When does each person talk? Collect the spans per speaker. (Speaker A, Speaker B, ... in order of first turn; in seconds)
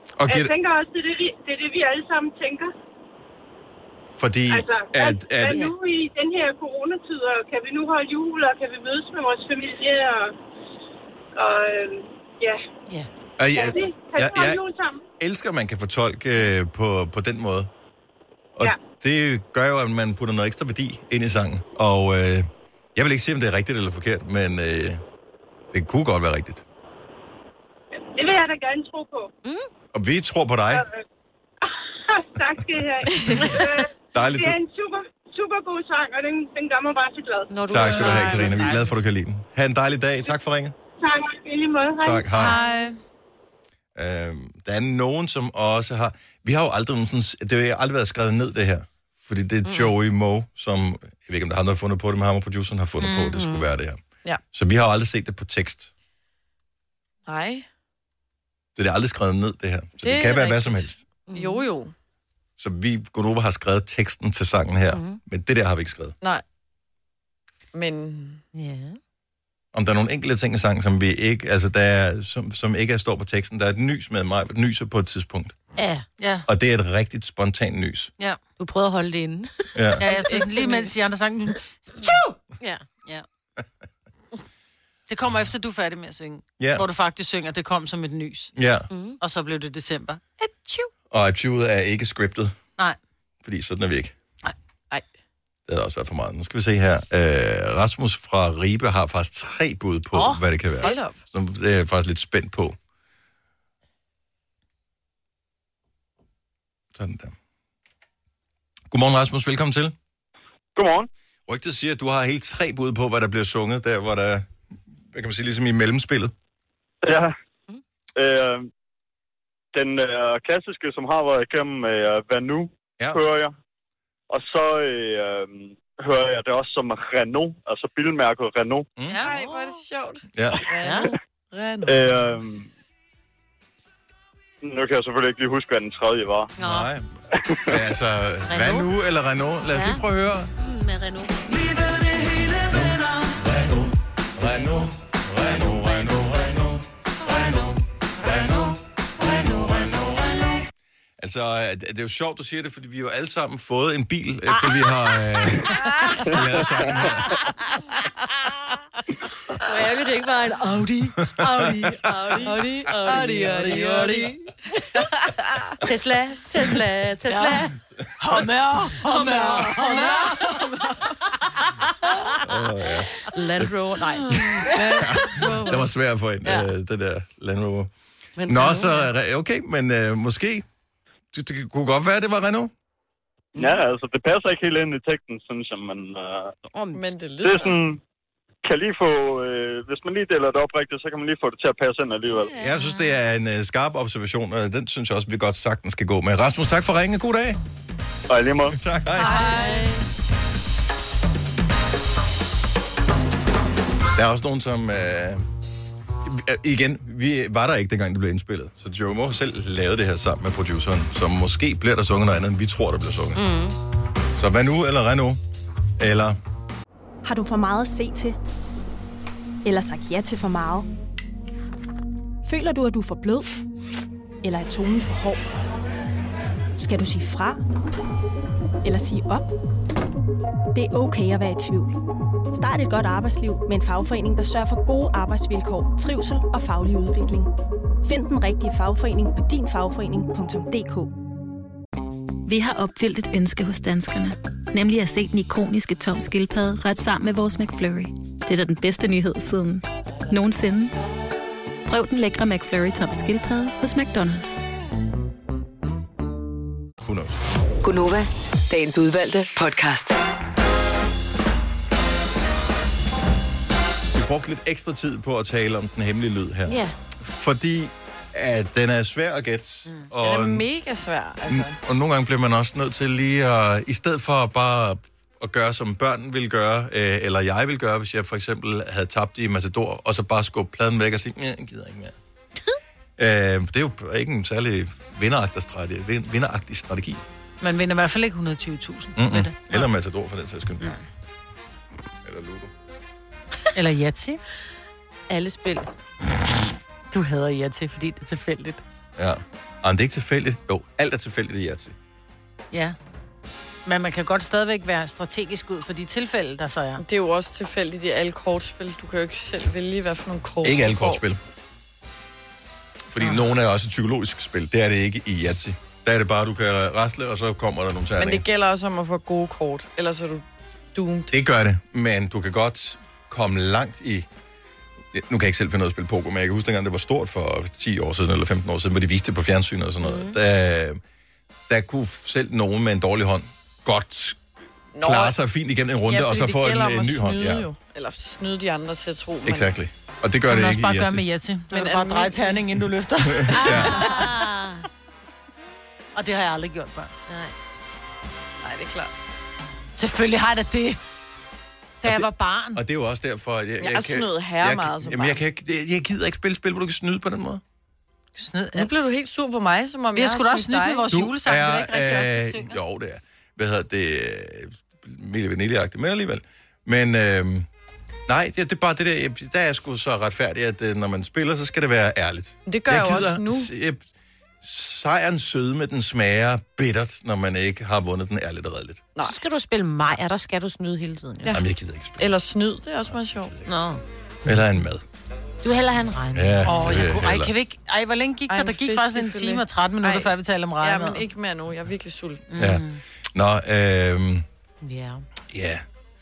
Speaker A: 0.2-0.5, 4.2-5.6, 13.4-14.6, 15.2-17.7, 18.6-25.0, 25.7-26.6, 29.9-30.9, 34.1-34.6, 37.7-40.7, 42.0-42.5, 44.0-54.0, 54.5-55.9, 58.8-61.0, 62.6-66.2, 69.7-75.6, 76.5-78.1, 79.8-80.0, 86.6-86.8, 88.6-88.9, 91.1-92.6, 93.4-94.2, 95.7-102.8, 106.9-107.4, 108.9-110.0, 111.5-114.5, 115.1-116.3, 130.3-130.6, 136.6-137.1, 137.7-140.5, 142.6-150.3, 151.2-155.7, 156.2-157.3, 161.2-162.1, 172.4-173.7, 174.4-177.9, 178.5-180.7, 181.3-182.7, 192.5-197.6, 198.7-199.6, 204.2-205.4, 206.2-213.4, 214.3-215.4, 216.0-216.4, 257.0-257.4, 264.1-270.7, 271.5-282.2, 283.2-287.2, 289.2-291.0, 292.2-292.7, 299.2-301.9, 310.6-311.4, 313.1-318.4, 321.3-324.3, 325.1-331.0, 331.7-334.4, 335.0-337.7, 339.4-341.2, 343.2-344.0, 352.1-357.6, 361.1-367.7, 368.3-374.1, 374.6-379.1, 381.5-382.3, 383.1-383.7, 384.4-385.0, 386.3-387.5, 392.6-394.5, 395.5-395.8
Speaker B: 0.3-2.7, 4.5-10.3, 11.4-12.6, 13.5-15.0, 28.2-29.3, 30.7-31.0, 31.7-37.5, 41.0-42.4
Speaker C: 33.1-33.5, 42.5-42.9, 57.3-57.7, 60.0-61.9, 67.7-68.4, 100.8-101.2, 129.2-132.3, 155.8-156.1, 162.4-164.3, 169.1-171.2, 174.1-175.8, 186.9-187.8, 199.2-200.0, 270.2-271.8, 307.0-311.2, 318.2-321.3, 334.9-335.4, 336.1-339.7, 341.7-342.6, 343.6-344.3, 348.6-349.2, 353.8-355.4, 358.7-361.1, 372.7-373.7, 382.2-383.5, 386.6-387.0, 388.5-392.4
Speaker D: 37.5-38.9, 49.6-49.9, 53.3-53.6, 61.3-61.6, 64.9-65.2, 68.5-69.0, 75.8-76.0, 78.6-80.9, 82.6-82.8, 88.9-89.2, 129.1-129.8, 130.8-131.2, 136.6-136.9, 138.5-138.9, 139.7-140.0, 140.6-141.7, 159.6-164.4, 165.8-167.8, 168.4-170.4, 171.6-172.4, 173.2-175.9, 178.4-179.1, 183.6-183.8, 186.7-187.0, 192.3-193.1, 199.2-200.0, 213.3-213.8, 266.7-266.9, 295.3-295.9, 343.6-344.9, 347.3-347.5, 379.2-381.6, 383.7-384.0, 385.6-386.8, 394.8-395.2
Speaker E: 42.4-43.0, 53.0-53.3, 76.2-76.5, 80.0-82.2, 85.1-88.5, 89.2-90.9, 168.2-170.1, 287.6-289.9, 293.8-294.4, 297.1-298.8, 302.7-303.0, 303.9-307.0, 340.5-344.2, 346.1-347.1, 350.0-351.0, 352.0-352.8, 358.4-358.9, 360.1-362.8, 386.7-391.3, 392.5-393.0
Speaker F: 110.8-111.1, 117.0-117.3, 118.2-118.7, 119.7-123.5, 124.3-128.9, 131.9-132.6, 134.6-136.5, 183.6-186.5, 187.4-188.0, 188.6-192.5, 198.3-198.8
Speaker G: 217.2-218.4, 219.7-220.9, 222.4-223.5, 224.4-225.4, 226.8-227.6, 228.8-229.5, 230.7-232.0, 232.5-237.5, 238.0-241.1
Speaker H: 242.5-250.9, 251.9-254.7
Speaker I: 257.8-260.2